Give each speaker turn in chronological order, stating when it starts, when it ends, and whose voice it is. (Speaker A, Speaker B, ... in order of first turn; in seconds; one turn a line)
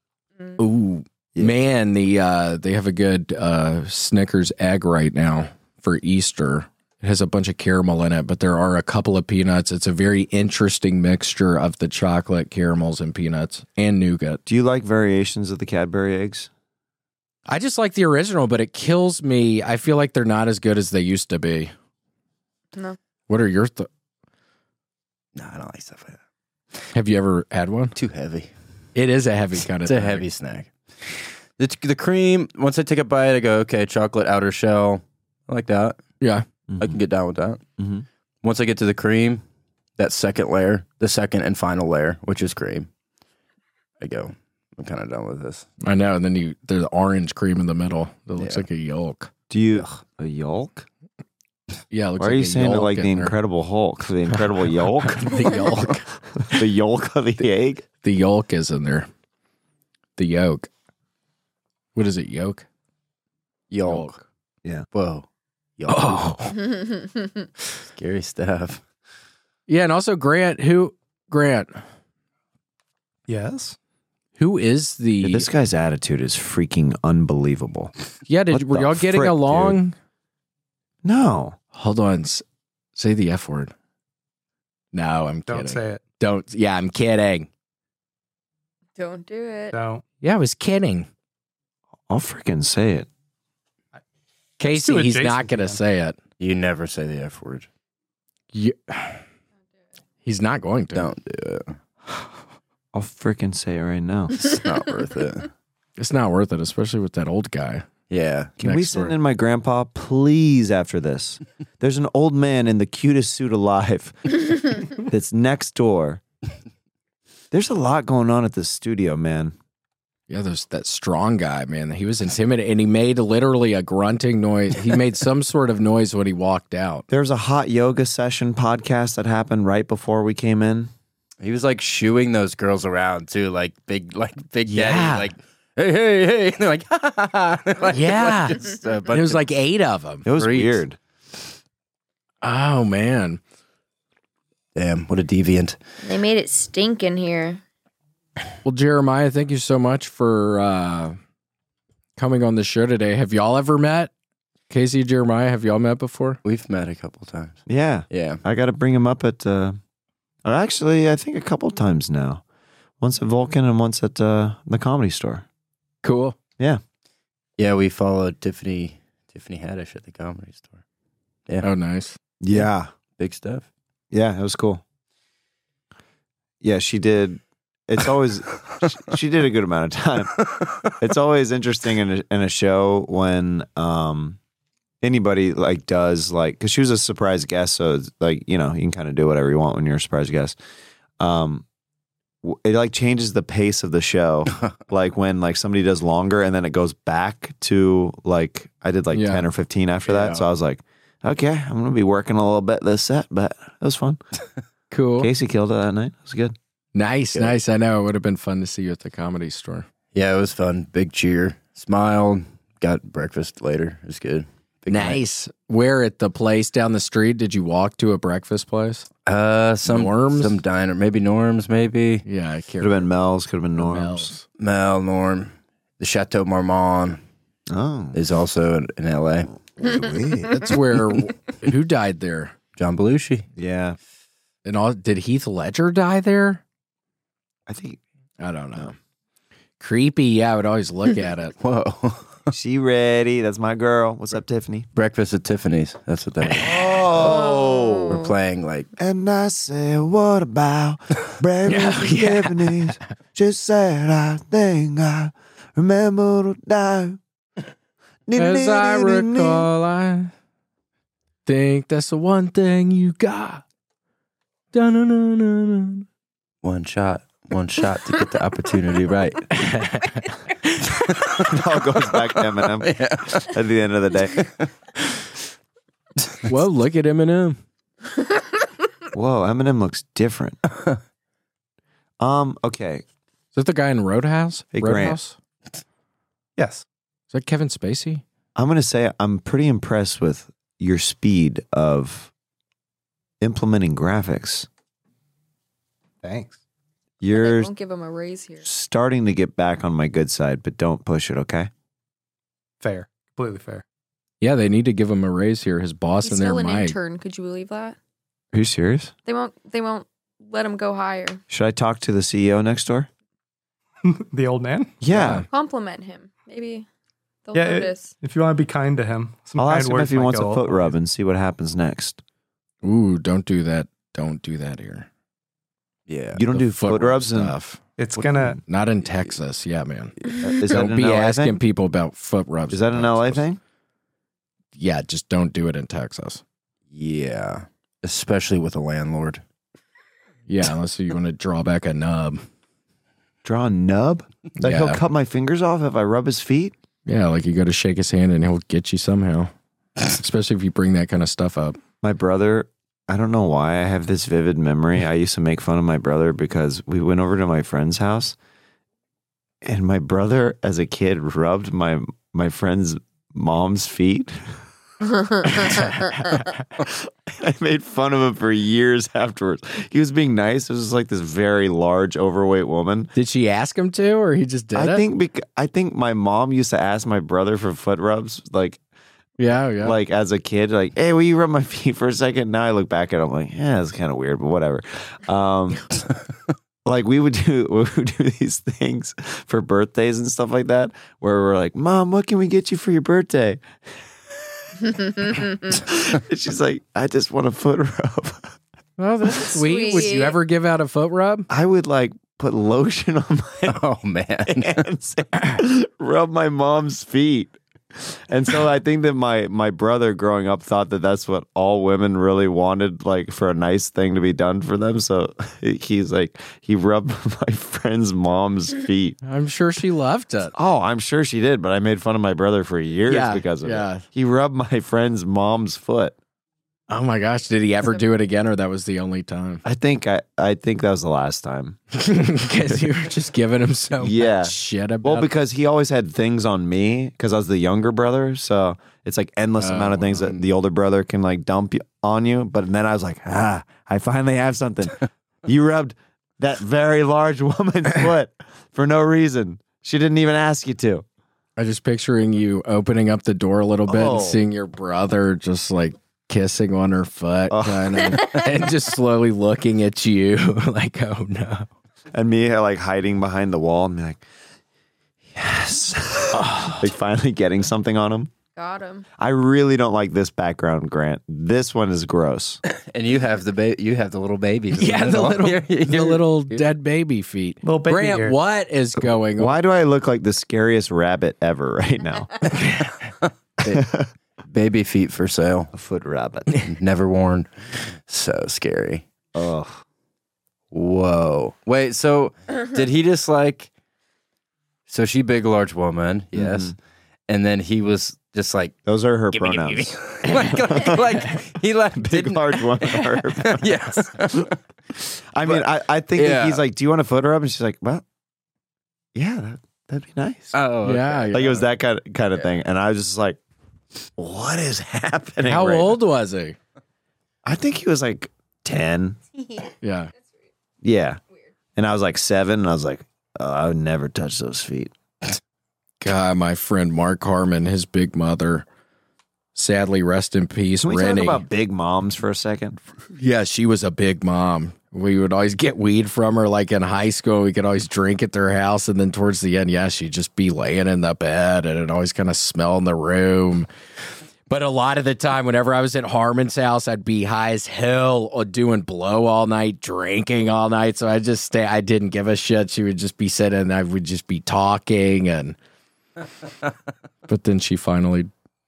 Speaker A: 0.6-14.4
Speaker B: 14.4-16.5
Speaker A: 17.5-21.7
Speaker A: 23.3-23.9
Speaker C: 25.4-26.2
Speaker A: 26.9-27.9
Speaker C: 27.9-28.5
Speaker A: 28.9-30.2
Speaker C: 29.8-36.0
Speaker A: 36.2-36.5
Speaker B: 36.7-37.0
Speaker C: 36.8-37.6
Speaker B: 37.8-38.0
Speaker C: 38.4-39.4
Speaker C: 40.0-42.9
Speaker C: 44.0-45.7
Speaker A: 45.8-49.3
Speaker C: 48.4-48.6
Speaker B: 49.5-50.9
Speaker A: 51.9-53.3
Speaker B: 52.2-57.9
Speaker A: 55.0-56.0
Speaker A: 58.0-59.1
Speaker A: 60.2-60.7
Speaker A: 61.9-62.6
Speaker C: 63.7-64.2
Speaker A: 63.9-64.2
Speaker C: 64.9-65.2
Speaker C: 65.8-66.3
Speaker A: 65.9-66.5
Speaker D: 66.6-67.5
Speaker C: 67.8-68.8
Speaker A: 69.7-71.8
Speaker E: 73.3-73.8
Speaker A: 74.4-75.5
Speaker B: 75.2-77.9
Speaker A: 78.3-79.9
Speaker B: 78.5-79.8
Speaker B: 81.0-81.6
Speaker A: 81.7-82.4
Speaker A: 83.0-83.7
Speaker A: 84.9-87.5
Speaker E: 85.5-86.0
Speaker D: 89.0-89.7
Speaker E: 89.7-90.0
Speaker A: 90.2-91.1
Speaker B: 92.1-93.1
Speaker A: 94.6-96.2
Speaker E: 94.6-95.8
Speaker C: 96.4-97.7
Speaker A: 98.5-99.2
Speaker A: 100.2-101.1
Speaker C: 100.9-101.7
Speaker B: 102.9-104.4
Speaker C: 104.3-105.5
Speaker A: 106.0-107.8
Speaker C: 108.1-108.5
Speaker B: 108.6-116.2
Speaker A: 108.6-109.1
Speaker B: 117.5-119.5
Speaker A: 120.3-127.0
Speaker B: 127.1-130.9
Speaker C: 131.4-139.4
Speaker A: 134.7-135.3
Speaker A: 137.9-138.6
Speaker A: 139.1-140.3
Speaker B: 140.2-141.0
Speaker C: 140.4-140.7
Speaker A: 142.4-143.4
Speaker C: 144.7-145.8
Speaker D: 146.0-147.6
Speaker A: 148.6-151.2
Speaker A: 152.2-154.1
Speaker A: 154.7-156.4
Speaker C: 156.4-158.4
Speaker B: 157.7-159.8
Speaker B: 160.4-162.4
Speaker B: 163.0-165.4
Speaker A: 166.0-166.3
Speaker C: 167.6-170.8
Speaker A: 171.6-172.2
Speaker B: 172.4-172.9
Speaker C: 173.2-173.7
Speaker B: 174.1-174.8
Speaker B: 176.6-180.4
Speaker B: 181.0-184.4
Speaker B: 185.0-190.6
Speaker B: 191.2-191.6
Speaker B: 192.4-204.2
Speaker A: 199.1-199.4
Speaker C: 200.1-200.4
Speaker A: 204.9-205.3
Speaker B: 205.2-206.5
Speaker A: 206.9-209.8
Speaker C: 210.1-215.2
Speaker A: 214.9-219.1
Speaker C: 219.2-222.2
Speaker A: 219.8-220.6
Speaker A: 222.2-223.1
Speaker B: 222.8-224.3
Speaker A: 223.8-224.4
Speaker C: 224.6-227.2
Speaker B: 227.7-228.2
Speaker C: 228.1-229.5
Speaker B: 229.8-230.6
Speaker A: 230.5-232.5
Speaker C: 232.8-233.4
Speaker B: 233.6-234.0
Speaker A: 234.6-236.6
Speaker B: 237.7-238.0
Speaker A: 238.4-238.9
Speaker A: 239.8-241.5
Speaker C: 241.6-242.4
Speaker B: 242.5-244.9
Speaker C: 244.9-247.2
Speaker B: 246.6-248.2
Speaker D: 247.2-248.3
Speaker C: 248.1-248.9
Speaker B: 249.0-257.2
Speaker A: 251.7-252.9
Speaker B: 258.2-259.7
Speaker A: 258.4-260.3
Speaker A: 261.4-263.6
Speaker A: 264.7-266.1
Speaker C: 266.6-269.5
Speaker A: 269.5-270.8
Speaker B: 271.4-274.4
Speaker C: 272.1-273.5
Speaker C: 274.4-274.6
Speaker A: 276.5-277.6
Speaker B: 279.1-280.6
Speaker B: 282.2-283.0
Speaker A: 283.5-285.4
Speaker B: 284.7-285.2
Speaker E: 286.6-286.8
Speaker A: 287.3-288.2
Speaker B: 288.6-292.3
Speaker B: 293.4-294.7
Speaker E: 296.2-296.6
Speaker B: 297.2-297.7
Speaker D: 297.3-298.6
Speaker B: 298.6-301.7
Speaker E: 302.8-303.8
Speaker A: 304.4-307.0
Speaker D: 306.2-307.9
Speaker B: 308.5-309.1
Speaker D: 309.2-311.4
Speaker B: 311.5-313.1
Speaker E: 314.0-314.9
Speaker B: 315.0-315.4
Speaker A: 315.1-315.4
Speaker D: 315.5-316.9
Speaker D: 317.5-318.1
Speaker E: 317.5-320.7
Speaker B: 319.6-322.2
Speaker A: 322.8-325.1
Speaker C: 326.1-326.4
Speaker B: 326.4-327.5
Speaker A: 326.5-327.8
Speaker E: 328.0-328.6
Speaker B: 328.1-328.6
Speaker A: 328.6-333.4
Speaker B: 330.4-331.6
Speaker B: 332.7-333.6
Speaker A: 334.7-336.4
Speaker C: 336.9-339.4
Speaker A: 340.5-342.4
Speaker B: 343.4-346.7
Speaker A: 344.6-345.0
Speaker A: 347.1-349.5
Speaker A: 350.0-351.8
Speaker B: 352.0-358.4
Speaker B: 359.6-364.5
Speaker B: 366.8-373.1
Speaker A: 373.1-375.0
Speaker B: 374.7-378.8
Speaker A: 379.4-380.0
Speaker B: 379.8-385.9
Speaker B: 386.8-393.6
Speaker B: 395.7-398.6
Speaker A: 399.0-401.5
Speaker D: 399.4-400.4
Speaker B: 401.5-403.8
Speaker C: 403.7-404.8
Speaker B: 404.4-419.2
Speaker A: 419.2-420.5
Speaker B: 420.5-426.1
Speaker A: 423.1-424.0
Speaker A: 426.9-429.6
Speaker B: 429.6-431.8
Speaker A: 431.9-435.3
Speaker B: 434.0-451.0
Speaker A: 439.6-440.4
Speaker A: 451.6-461.7
Speaker B: 453.9-454.4
Speaker B: 457.5-458.4
Speaker B: 462.1-464.2
Speaker B: 465.3-468.3
Speaker A: 466.3-466.9
Speaker D: 468.6-469.1
Speaker B: 469.2-472.6
Speaker C: 472.6-476.6
Speaker A: 474.8-479.6
Speaker E: 477.6-478.4
Speaker B: 479.4-482.3
Speaker C: 482.6-483.8
Speaker B: 483.6-484.1
Speaker C: 484.5-485.7
Speaker B: 485.7-486.5
Speaker C: 486.6-489.0
Speaker B: 489.3-489.8
Speaker C: 490.7-493.7
Speaker C: 494.9-496.7
Speaker B: 496.3-496.7
Speaker C: 497.3-498.8
Speaker B: 498.9-500.0
Speaker C: 499.3-504.6
Speaker B: 502.0-508.0
Speaker C: 505.4-506.6
Speaker B: 509.1-510.6
Speaker C: 510.5-511.5
Speaker A: 510.8-511.6
Speaker B: 511.3-513.4
Speaker B: 514.2-516.0
Speaker A: 515.4-516.5
Speaker B: 517.4-519.2
Speaker A: 519.8-520.1
Speaker B: 520.8-521.2
Speaker B: 521.8-524.9
Speaker A: 526.0-528.6
Speaker A: 529.5-531.4
Speaker B: 530.8-532.8
Speaker A: 533.1-543.7
Speaker A: 544.5-555.5
Speaker A: 557.3-558.3